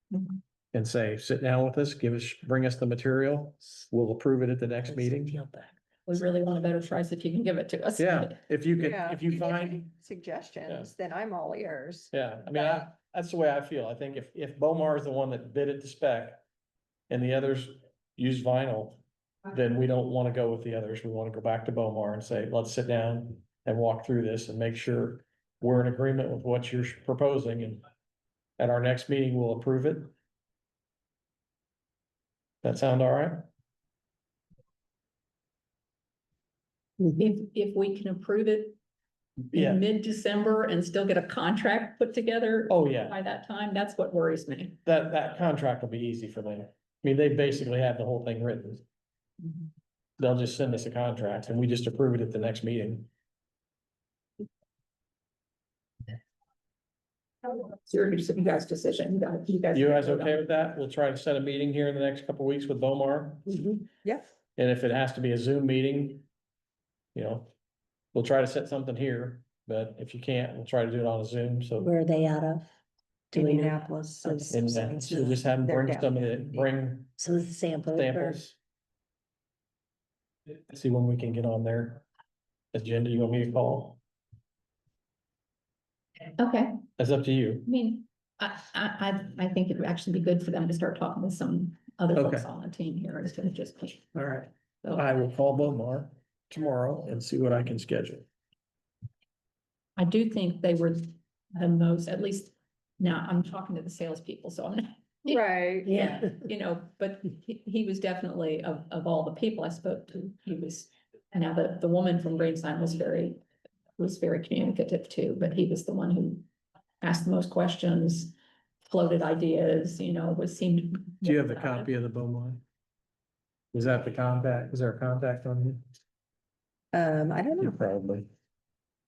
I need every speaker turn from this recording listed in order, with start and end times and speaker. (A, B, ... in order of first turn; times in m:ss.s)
0:00.7-0:05.4 A
0:04.9-0:05.7 B
0:06.1-0:08.3 C
0:08.0-0:09.8 A
0:08.8-0:12.1 D
0:12.1-0:16.4 A
0:17.1-0:27.8 A
0:28.6-0:30.1 A
0:32.6-0:33.5 A
0:37.0-0:38.8 C
0:39.5-0:39.8 A
0:39.5-0:44.8 C
0:42.7-0:43.2 A
0:44.8-0:48.8 A
0:50.2-0:53.1 A
0:57.4-1:00.4 C
0:59.7-1:03.5 A
1:03.5-1:03.8 B
1:04.6-1:06.2 A
1:07.1-1:07.5 A
1:08.1-1:11.9 A
1:11.8-1:12.7 B
1:13.3-1:14.9 B
1:13.3-1:16.7 D
1:14.5-1:17.1 A
1:17.2-1:18.4 B
1:17.9-1:18.6 A
1:20.7-1:22.0 A
1:22.7-1:24.0 A
1:26.4-1:26.8 C
1:27.0-1:27.7 A
1:27.6-1:34.1 C
1:32.1-1:32.5 A
1:34.1-1:38.2 A
1:34.8-1:35.1 C
1:40.0-1:53.4 C
1:45.3-1:46.3 D
1:54.0-1:56.5 C
1:57.0-2:01.9 C
2:01.2-2:02.6 A
2:03.7-2:05.8 A
2:06.9-2:07.8 D
2:07.6-2:08.3 A